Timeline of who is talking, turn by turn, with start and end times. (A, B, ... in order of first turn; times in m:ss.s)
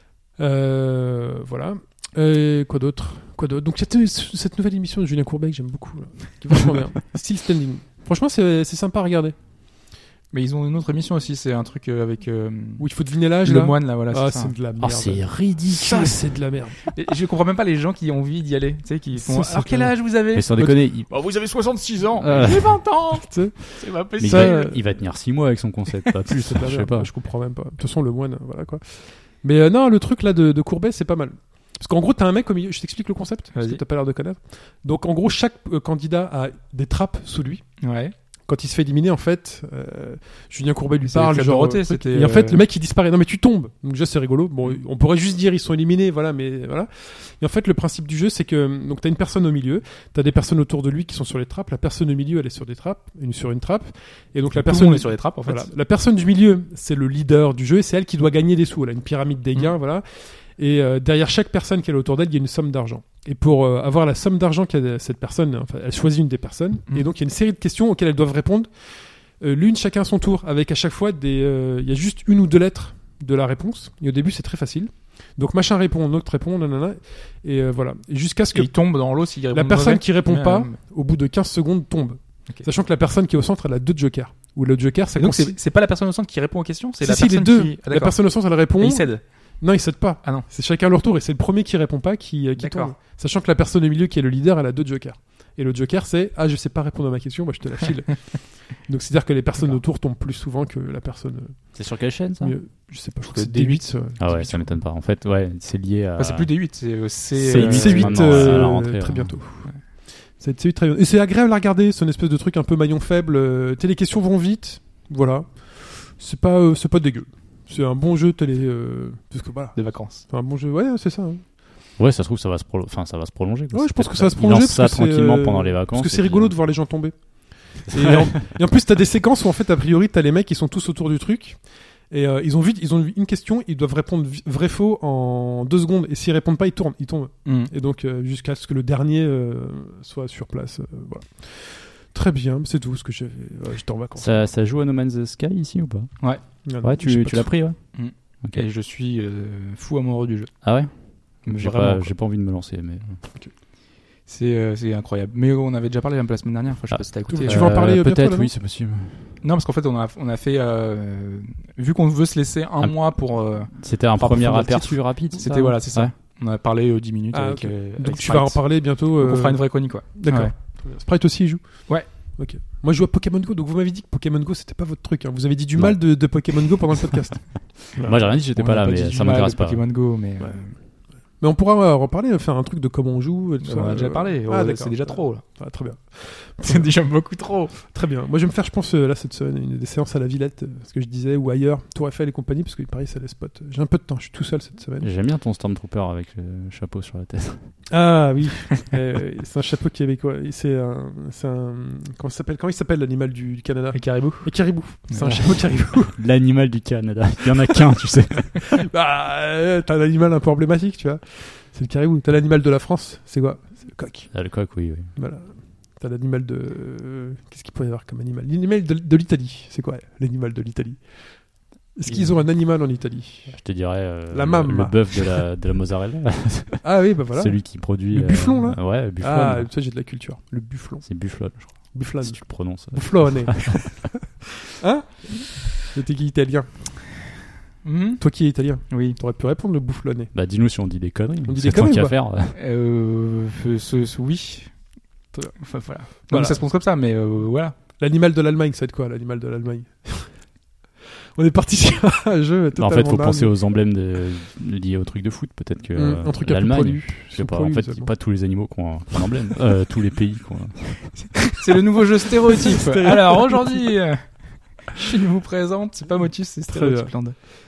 0:00.4-0:09.4 A
0:10.3-0:14.6 B
0:12.8-0:16.9 A
0:14.8-0:16.2 C
0:15.8-0:16.2 B
0:16.8-0:24.7 B
0:19.1-0:20.0 A
0:20.3-0:21.1 C
0:22.2-0:22.9 C
0:23.2-0:24.8 A
0:24.2-0:27.1 C
0:26.4-0:37.6 A
0:33.6-0:33.8 B
0:37.8-0:38.1 B
0:38.5-1:08.7 A
0:41.0-0:42.6 B
0:54.6-0:55.7 B
1:09.4-1:18.7 A
1:18.5-1:20.8 B
1:19.5-1:25.6 A
1:25.2-1:29.2 B
1:27.0-1:41.8 A
1:32.6-1:33.0 B
1:41.8-1:42.6 C
1:42.4-1:44.8 A
1:43.3-1:43.8 B
1:44.2-1:46.6 C
1:46.2-1:48.7 B
1:47.4-1:49.4 C
1:47.5-1:49.8 A
1:50.4-2:01.4 A
1:59.8-2:00.2 B
2:02.0-2:06.6 C
2:03.7-2:11.6 A
2:12.1-2:24.5 A
2:17.4-2:17.7 B
2:24.2-2:26.1 C
2:26.6-2:27.6 A
2:26.8-2:28.6 C
2:27.9-2:30.5 B
2:30.6-2:33.2 C
2:31.4-2:32.1 B
2:34.3-2:37.8 B
2:36.9-2:39.4 C
2:37.3-2:38.5 A
2:39.4-2:50.5 B
2:42.8-2:43.1 C
2:43.8-2:46.1 C
2:45.4-2:45.8 A
2:47.3-2:58.3 A
2:55.8-2:56.7 C
2:58.0-2:59.8 C
2:58.5-3:00.8 B
3:01.4-3:06.9 A
3:03.6-3:05.4 B
3:06.6-3:07.8 B
3:07.9-3:15.1 A
3:15.0-3:17.6 C
3:17.9-3:26.2 A
3:23.9-3:24.5 B
3:25.2-3:28.7 C
3:28.7-3:34.5 A
3:34.3-3:35.1 C
3:35.1-3:41.1 A
3:42.0-3:43.6 A
3:42.1-3:42.4 C
3:43.5-3:49.7 C
3:44.3-3:45.5 A
3:46.8-3:51.1 A
3:51.0-3:53.9 C
3:51.8-3:54.2 A
3:54.8-3:56.7 A
3:57.8-3:58.2 B
3:58.2-4:00.3 A
3:58.9-3:59.2 B
4:00.3-4:02.6 C
4:01.5-4:02.2 A
4:02.6-4:04.8 B
4:05.3-4:05.6 A
4:05.6-4:07.8 B
4:06.2-4:06.6 A
4:08.0-4:10.4 A
4:11.4-4:13.6 A
4:12.8-4:21.4 C
4:15.9-4:18.2 A
4:21.6-4:27.4 B
4:22.6-4:23.9 A
4:26.7-4:27.2 A